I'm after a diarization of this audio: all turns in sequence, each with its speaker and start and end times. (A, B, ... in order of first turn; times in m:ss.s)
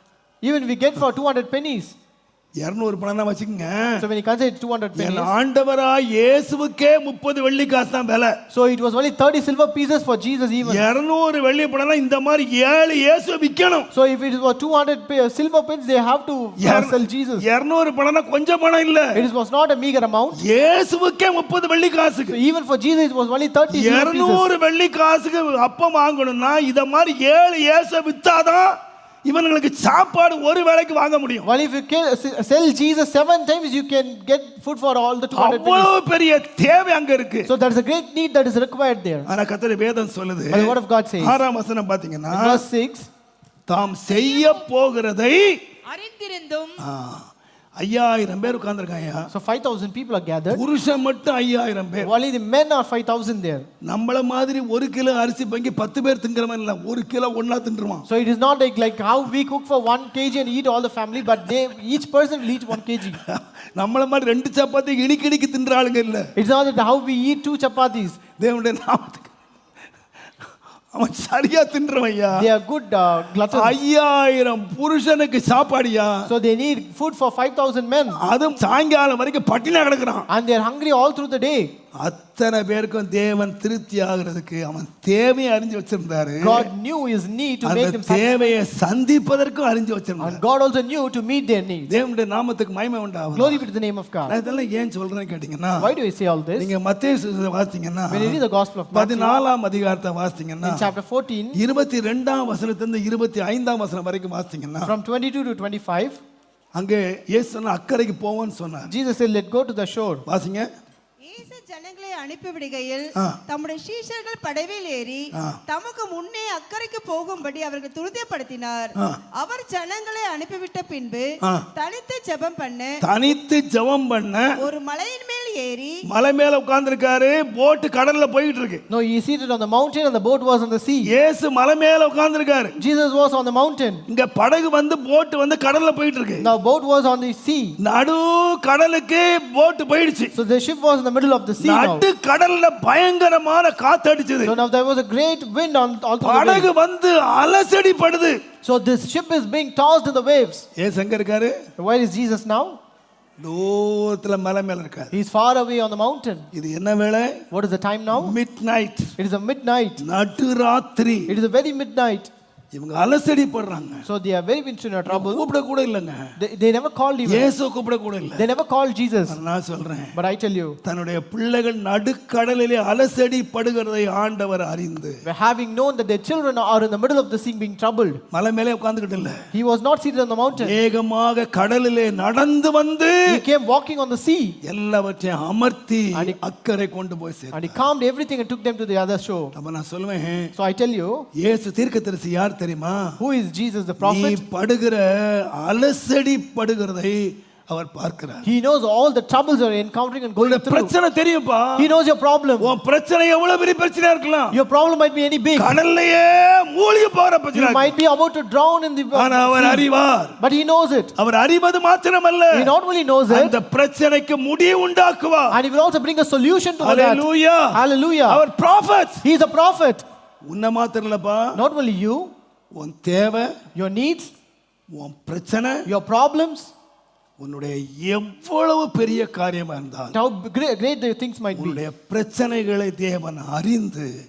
0:00.4-0:01.9 A
0:02.6-0:04.0 B
0:04.0-0:05.3 A
0:04.9-0:08.3 B
0:08.5-0:10.9 A
0:10.6-0:13.9 B
0:13.9-0:17.4 A
0:16.6-0:19.2 B
0:19.1-0:20.4 A
0:20.4-0:22.4 B
0:22.3-0:24.5 A
0:23.7-0:31.5 B
0:31.4-0:35.9 A
0:35.3-0:37.5 B
0:37.4-0:39.3 A
0:39.2-0:42.6 B
0:40.5-0:41.4 A
0:42.3-0:43.1 A
0:43.7-0:45.6 B
0:44.1-0:44.5 C
0:45.9-0:46.8 C
0:46.8-0:47.3 B
0:47.8-0:49.3 B
0:49.3-0:50.6 A
0:50.5-0:52.1 B
0:52.0-0:53.7 A
0:53.8-0:58.0 B
0:58.1-1:03.2 A
1:02.7-1:06.3 B
1:06.4-1:08.2 A
1:08.4-1:09.3 B
1:10.9-1:12.5 B
1:12.3-1:13.8 A
1:13.5-1:16.3 B
1:16.3-1:18.2 A
1:18.2-1:20.3 B
1:20.3-1:21.7 A
1:22.0-1:26.7 B
1:26.4-1:28.6 A
1:27.6-1:30.4 B
1:30.2-1:31.9 A
1:31.9-1:33.6 B
1:33.3-1:34.4 A
1:34.3-1:35.9 B
1:35.8-1:36.7 A
1:36.6-1:38.4 B
1:38.1-1:39.4 A
1:38.9-1:40.9 B
1:40.6-1:41.6 A
1:41.5-1:44.9 B
1:44.8-1:46.2 A
1:46.7-1:48.9 B
1:48.9-1:50.2 A
1:50.2-1:50.7 B
1:51.2-2:02.9 C
2:03.0-2:04.7 B
2:04.6-2:05.9 C
2:06.1-2:08.8 B
2:08.9-2:11.1 A
2:11.0-2:12.8 B
2:12.8-2:14.0 A
2:14.1-2:16.5 B
2:16.4-2:17.8 A
2:17.8-2:20.3 B
2:20.3-2:22.0 A
2:21.6-2:24.6 B
2:24.4-2:26.7 A
2:26.2-2:28.4 B
2:28.6-2:30.6 A
2:30.8-2:31.6 B
2:31.8-2:32.8 A
2:33.4-2:35.1 B
2:35.1-2:36.5 A
2:36.5-2:37.4 B
2:37.5-2:38.4 A
2:38.1-2:39.1 B
2:39.2-2:40.0 A
2:40.0-2:41.3 B
2:41.3-2:42.3 A
2:42.7-2:44.0 B
2:44.0-2:45.5 A
2:45.1-2:46.3 B
2:46.4-2:47.5 A
2:47.2-2:48.5 B
2:48.4-2:49.4 A
2:49.3-2:50.1 B
2:50.1-2:50.8 A
2:50.8-2:55.2 B
2:55.2-2:58.2 A
2:58.3-2:59.4 B
2:59.5-3:00.8 A
3:00.5-3:03.4 B
3:03.3-3:04.6 A
3:04.6-3:07.8 B
3:06.1-3:06.4 A
3:07.5-3:09.5 A
3:09.5-3:10.5 B
3:10.6-3:11.3 A
3:11.4-3:13.1 B
3:13.2-3:14.4 A
3:14.0-3:18.4 B
3:18.4-3:20.9 A
3:20.4-3:21.9 B
3:21.8-3:22.7 A
3:22.6-3:24.6 B
3:24.5-3:25.8 A
3:25.6-3:27.9 B
3:27.5-3:29.9 A
3:29.1-3:30.4 B
3:30.4-3:31.1 A
3:31.2-3:32.7 B
3:32.5-3:33.6 A
3:33.3-3:35.6 B
3:35.5-3:38.4 A
3:36.8-3:39.2 B
3:39.2-3:40.0 A
3:40.4-3:41.6 B
3:41.5-3:42.3 A
3:42.7-3:43.5 B
3:43.8-3:44.3 A
3:44.9-3:45.8 B
3:45.9-3:46.7 A
3:47.4-3:50.1 B
3:50.1-3:51.8 A
3:51.5-3:54.1 B